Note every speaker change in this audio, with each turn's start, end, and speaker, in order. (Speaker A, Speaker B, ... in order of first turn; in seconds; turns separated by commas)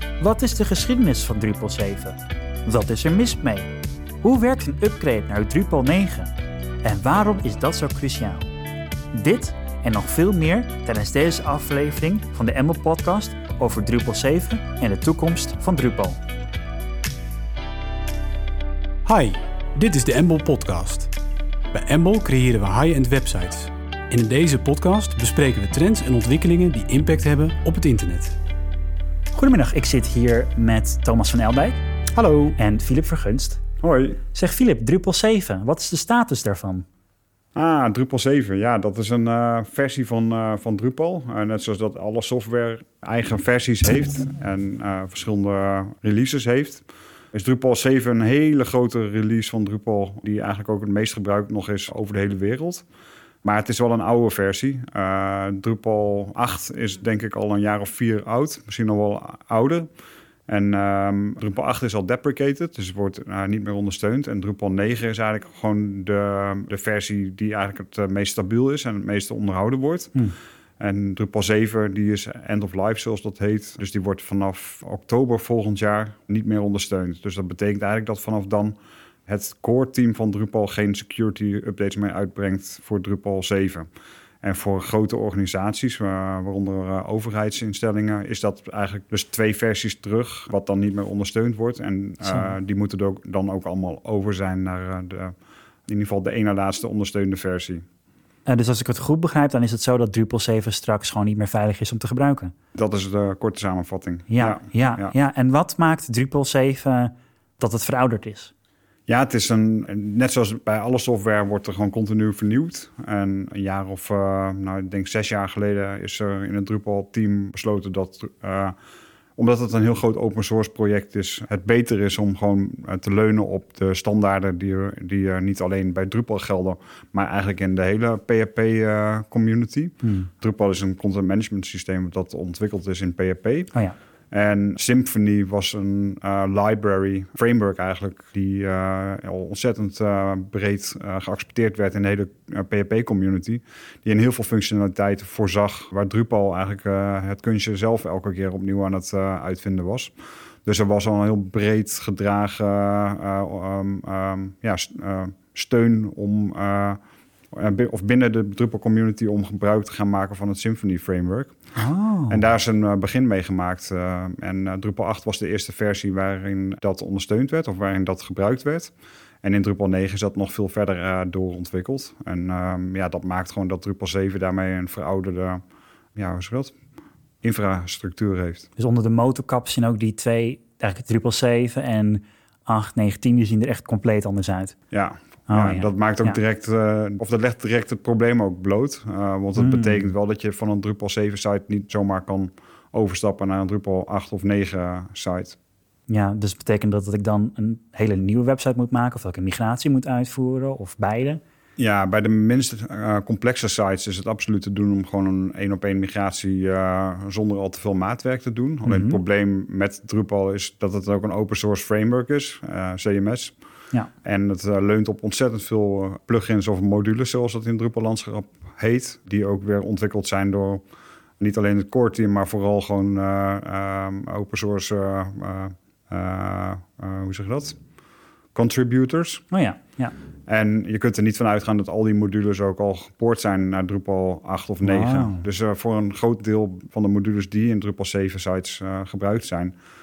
Speaker A: 0.2-3.7, Speaker A: 4.2-6.3, Speaker A: 6.8-8.4, Speaker A: 9.1-16.2, Speaker B: 19.1-21.1, Speaker B: 21.7-28.4, Speaker A: 29.3-31.8, Speaker B: 32.1-32.6, Speaker A: 32.5-33.6, Speaker C: 33.8-34.2, Speaker A: 34.3-36.9, Speaker C: 37.5-52.9, Speaker C: 53.4-59.9, Speaker C: 60.5-70.1, Speaker C: 70.8-83.9, Speaker C: 84.4-97.8, Speaker A: 98.5-102.5, Speaker C: 102.7-105.1, Speaker A: 104.3-108.5, Speaker C: 109.1-118.7, Speaker C: 119.3-133.7, Speaker A: 130.0-130.3, Speaker C: 134.3-157.0, Speaker C: 157.5-161.5, Speaker A: 161.8-162.4, Speaker C: 162.3-175.6, Speaker C: 176.1-176.7, Speaker C: 177.4-178.7, Speaker A: 178.8-184.8, Speaker C: 184.9-195.6, Speaker A: 185.5-186.4, Speaker A: 189.6-190.1, Speaker A: 196.1-201.4, Speaker C: 201.8-213.6, Speaker A: 208.8-209.2, Speaker C: 214.2-220.8, Speaker C: 221.4-227.8, Speaker C: 228.5-229.4, Speaker A: 229.5-230.1, Speaker C: 230.5-239.7, Speaker A: 234.8-235.4